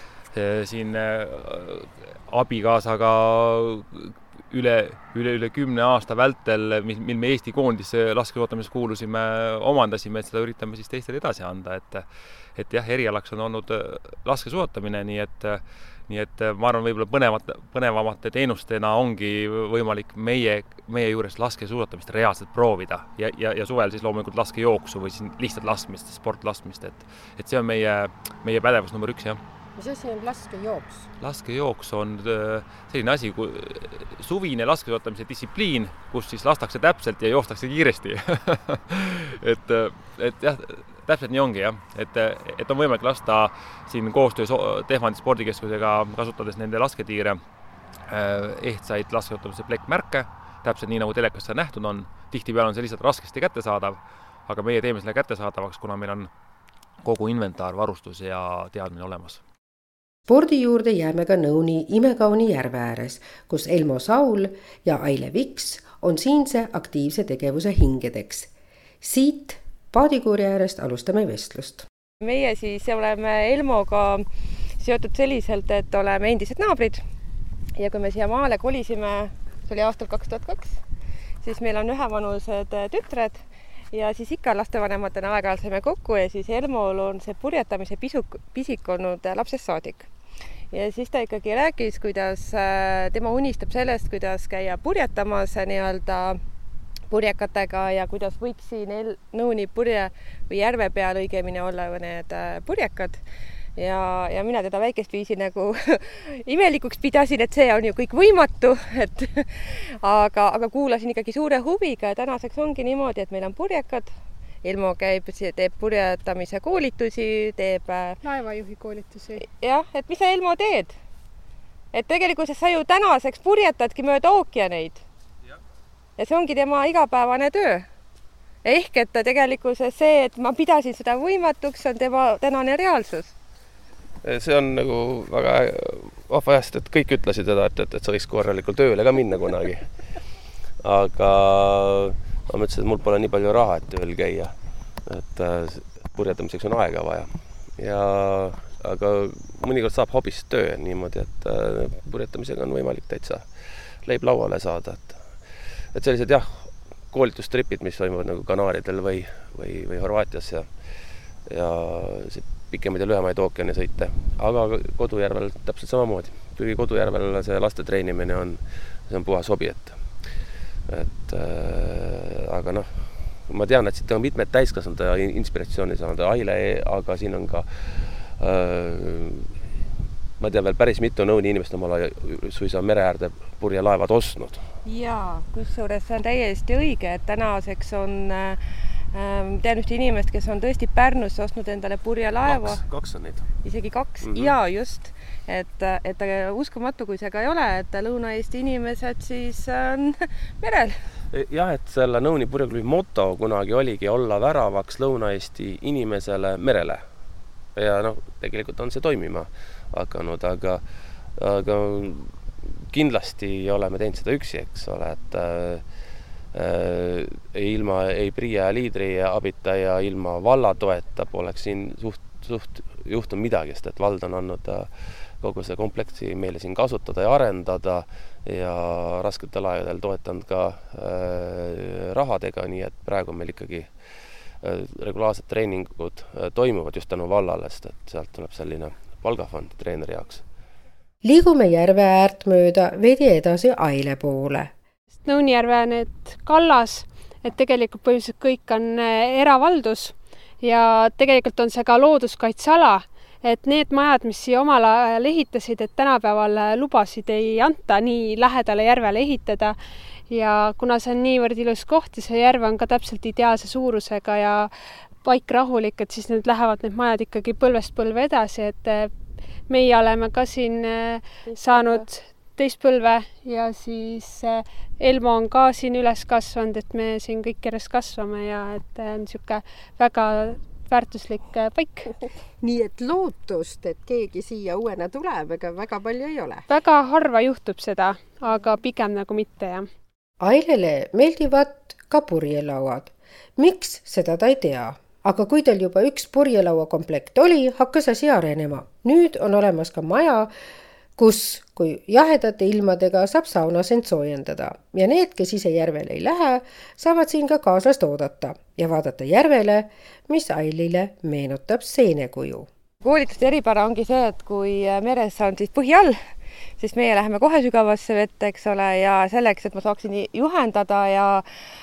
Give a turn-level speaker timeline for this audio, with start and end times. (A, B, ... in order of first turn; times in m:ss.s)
0:00.3-0:29.4 A
0:29.8-0:31.1 B
0:31.2-0:47.4 A
0:48.1-0:56.3 A
0:57.0-0:59.4 A
1:00.3-1:08.5 B
1:09.0-1:11.8 B
1:12.2-1:14.2 C
1:14.8-1:17.0 C
1:17.8-1:20.8 C
1:21.4-1:30.1 C
1:30.7-1:36.4 C
1:37.1-1:43.2 C
1:43.8-1:58.2 C
1:58.2-1:59.4 D
1:59.4-2:01.0 C
2:01.9-2:05.0 C
2:06.2-2:07.9 C
2:08.6-2:13.3 C
2:14.2-2:20.2 E
2:20.8-2:59.5 E
3:00.4-3:04.6 E
3:04.8-3:08.6 C
3:09.1-3:12.8 C
3:12.4-3:13.5 E
3:13.6-3:21.0 C
3:14.2-3:14.6 E
3:21.3-4:00.5 E
4:01.2-4:04.7 B
4:05.2-4:19.8 D
4:20.3-4:29.1 D
4:29.7-4:42.1 D
4:42.6-4:46.6 B
4:46.7-4:49.9 D
4:50.4-5:00.5 B
5:01.2-5:12.7 B
5:13.0-5:21.4 C